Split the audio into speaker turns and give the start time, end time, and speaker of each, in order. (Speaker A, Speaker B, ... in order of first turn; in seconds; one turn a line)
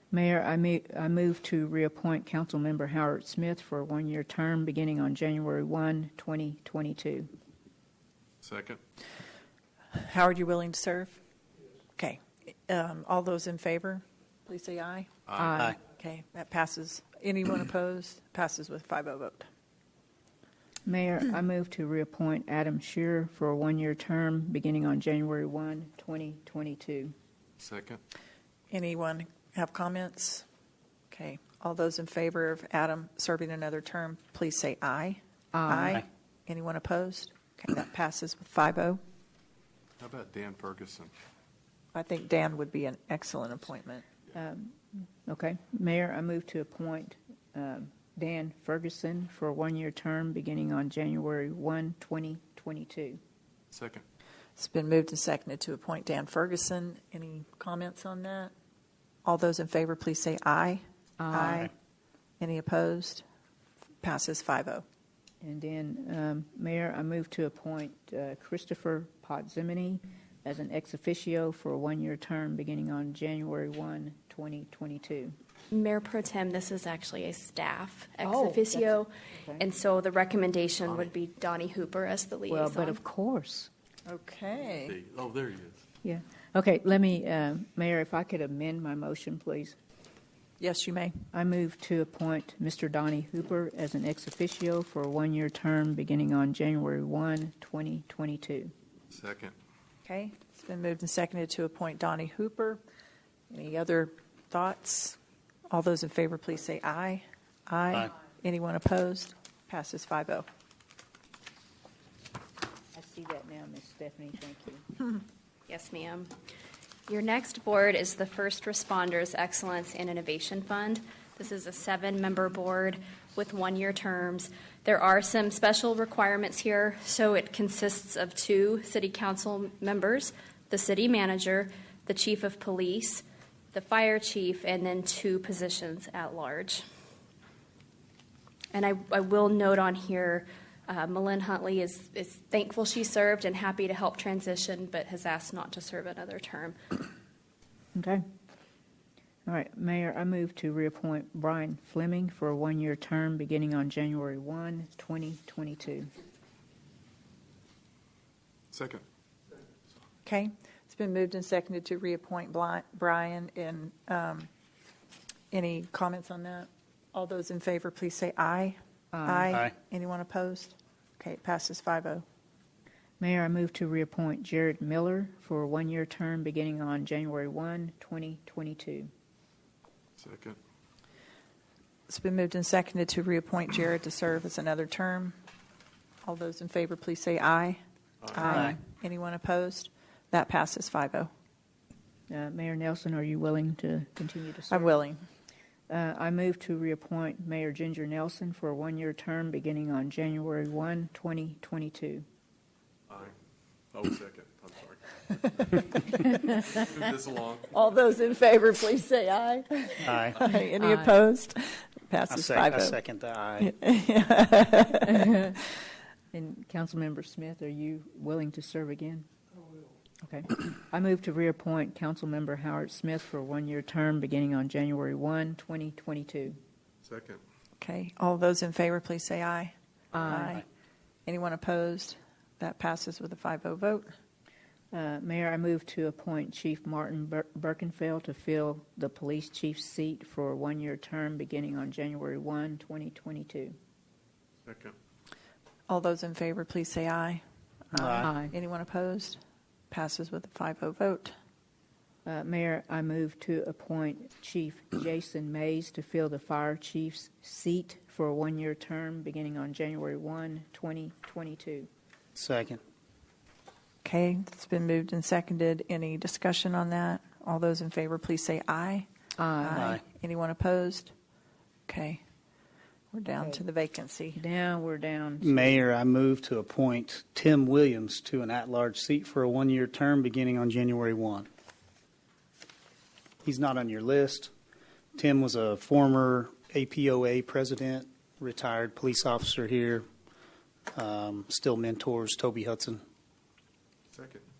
Speaker A: 0.1-7.3
Speaker B: 8.4-8.8
Speaker C: 9.9-11.2
Speaker C: 12.0-19.5
Speaker B: 15.3-15.6
Speaker A: 15.4-15.8
Speaker A: 20.9-27.1
Speaker B: 27.6-28.0
Speaker C: 28.7-30.5
Speaker C: 31.1-39.0
Speaker A: 35.5-36.0
Speaker B: 40.0-41.1
Speaker C: 41.9-44.1
Speaker A: 44.4-53.2
Speaker B: 53.7-54.0
Speaker C: 54.6-58.5
Speaker C: 59.2-61.7
Speaker A: 61.2-61.7
Speaker C: 62.4-63.2
Speaker C: 64.0-64.8
Speaker A: 65.4-75.3
Speaker D: 75.7-83.0
Speaker A: 78.2-79.7
Speaker B: 80.8-81.1
Speaker A: 82.5-83.7
Speaker C: 84.1-85.0
Speaker B: 84.8-85.8
Speaker A: 86.0-89.8
Speaker C: 90.6-91.2
Speaker A: 91.3-98.7
Speaker B: 99.1-99.5
Speaker C: 100.0-102.8
Speaker C: 103.5-105.2
Speaker C: 105.7-110.5
Speaker A: 112.9-114.8
Speaker D: 115.7-116.3
Speaker D: 117.1-136.8
Speaker D: 138.7-146.8
Speaker A: 147.9-148.2
Speaker A: 149.5-156.1
Speaker B: 158.7-159.0
Speaker C: 160.2-164.5
Speaker C: 165.5-172.2
Speaker A: 169.1-169.6
Speaker A: 173.2-179.1
Speaker B: 180.2-180.6
Speaker C: 182.1-185.4
Speaker C: 186.2-187.8
Speaker B: 188.2-188.5
Speaker C: 188.3-191.3
Speaker A: 188.4-188.7
Speaker E: 188.5-188.8
Speaker A: 192.3-194.9
Speaker C: 194.7-195.2
Speaker A: 195.9-202.2
Speaker B: 203.1-203.3
Speaker B: 203.9-205.8
Speaker C: 205.6-206.4
Speaker B: 206.5-207.8
Speaker C: 207.7-213.0
Speaker E: 210.1-210.4
Speaker A: 210.8-211.2
Speaker E: 212.3-213.7
Speaker C: 213.6-215.6
Speaker A: 215.2-215.6
Speaker A: 216.3-219.3
Speaker A: 220.2-226.6
Speaker B: 227.0-227.4
Speaker C: 227.8-230.7
Speaker A: 230.1-230.6
Speaker C: 231.3-234.2
Speaker A: 234.9-243.8
Speaker B: 244.7-244.9
Speaker C: 245.9-251.3
Speaker E: 247.9-248.3
Speaker A: 248.2-248.5
Speaker A: 252.2-261.9
Speaker E: 262.4-262.8
Speaker C: 264.0-269.1
Speaker A: 269.4-270.0
Speaker C: 269.6-271.1
Speaker E: 269.8-270.0
Speaker C: 271.9-272.2
Speaker C: 273.1-274.4
Speaker A: 273.4-273.6
Speaker A: 274.4-275.8
Speaker E: 275.4-281.5
Speaker E: 283.4-284.5
Speaker E: 285.1-290.1
Speaker E: 290.9-293.0
Speaker B: 294.1-294.5